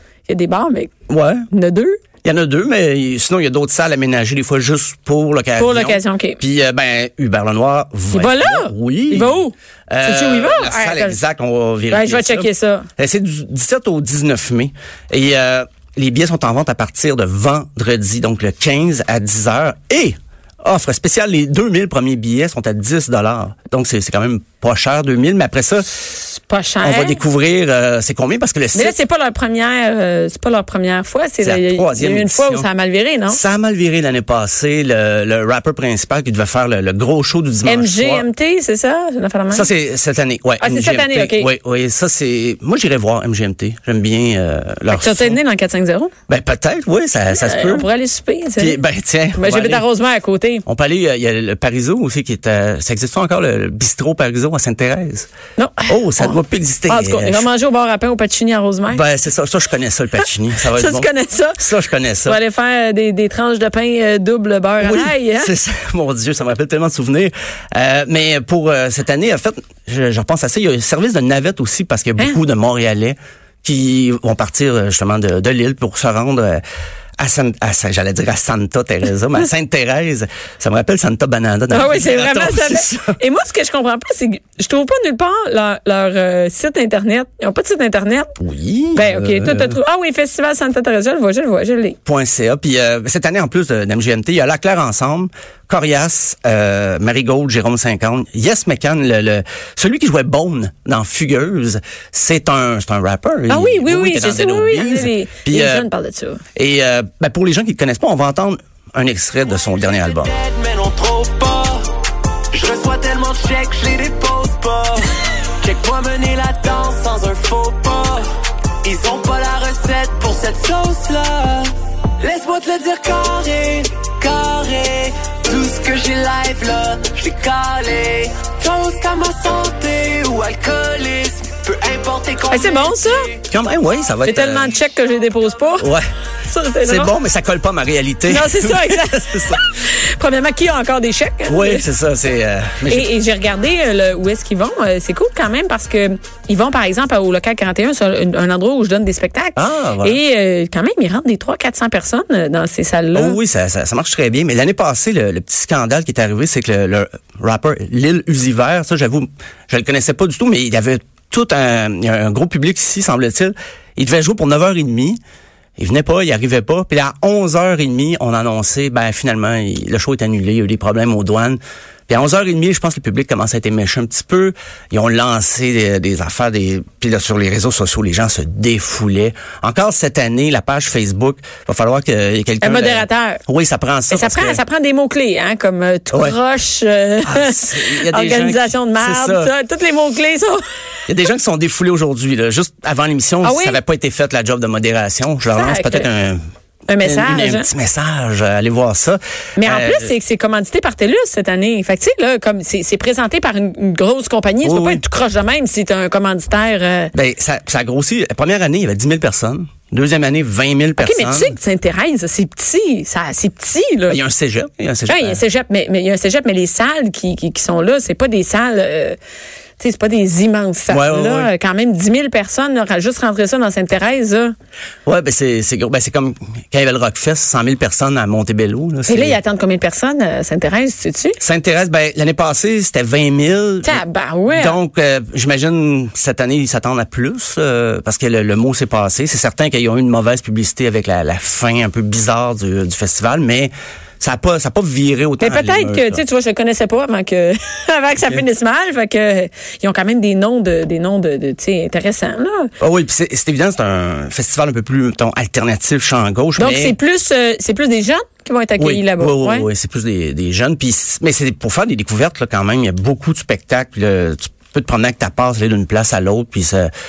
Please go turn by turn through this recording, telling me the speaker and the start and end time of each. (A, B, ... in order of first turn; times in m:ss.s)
0:00.3-0:00.9 A
0:01.1-0:01.5 B
0:01.5-0:02.0 A
0:02.2-0:26.0 B
0:05.6-0:06.4 A
0:08.1-0:11.2 A
0:11.9-0:12.9 A
0:26.2-0:27.2 A
0:26.8-0:29.0 B
0:28.7-0:33.4 A
0:31.4-0:32.7 B
0:33.3-0:38.3 B
0:37.6-0:39.7 A
0:39.5-0:45.4 B
0:40.6-0:41.5 A
0:44.9-0:46.1 A
0:46.3-0:47.9 B
0:47.3-0:48.8 A
0:48.6-0:49.9 B
0:49.3-0:50.6 A
0:50.7-0:55.3 B
0:55.6-0:59.0 A
0:55.9-0:57.5 B
0:58.9-1:01.1 B
1:00.7-1:01.6 A
1:01.6-1:02.4 B
1:02.2-1:05.5 A
1:04.8-1:16.6 B
1:17.2-1:23.2 B
1:21.7-1:28.3 A
1:28.4-1:29.8 B
1:28.9-1:32.0 A
1:32.0-1:45.9 B
1:43.5-1:46.4 A
1:46.6-1:50.3 B
1:50.3-1:52.0 C
1:52.5-2:13.0 C
2:12.5-2:13.4 A
2:13.5-2:14.7 B
2:14.2-2:15.9 A
2:15.8-2:16.0 B
2:16.5-2:17.1 A
2:16.8-2:19.6 B
2:18.3-2:21.8 A
2:21.5-2:23.1 B
2:22.9-2:33.4 A
2:29.6-2:30.2 B
2:33.1-2:45.2 B
2:45.8-3:04.6 B
3:02.6-3:03.4 A
3:04.1-3:10.6 A
3:06.1-3:06.4 B
3:07.2-3:09.5 B
3:11.1-3:16.4 B
3:13.4-3:13.8 A
3:15.5-3:16.1 A
3:16.9-3:17.7 A
3:17.0-3:20.1 B
3:19.6-3:27.1 A
3:24.6-3:25.0 B
3:27.2-3:31.6 B
3:31.0-3:34.2 A
3:34.1-3:35.4 B
3:35.1-3:39.2 A
3:39.8-3:44.5 A
3:40.9-3:41.5 B
3:45.1-3:49.4 B
3:49.1-3:51.4 A
3:51.4-4:06.2 B
3:53.8-3:54.8 A
4:05.4-4:12.7 A
4:12.8-4:17.0 B
4:16.6-4:19.7 A
4:18.8-4:26.9 B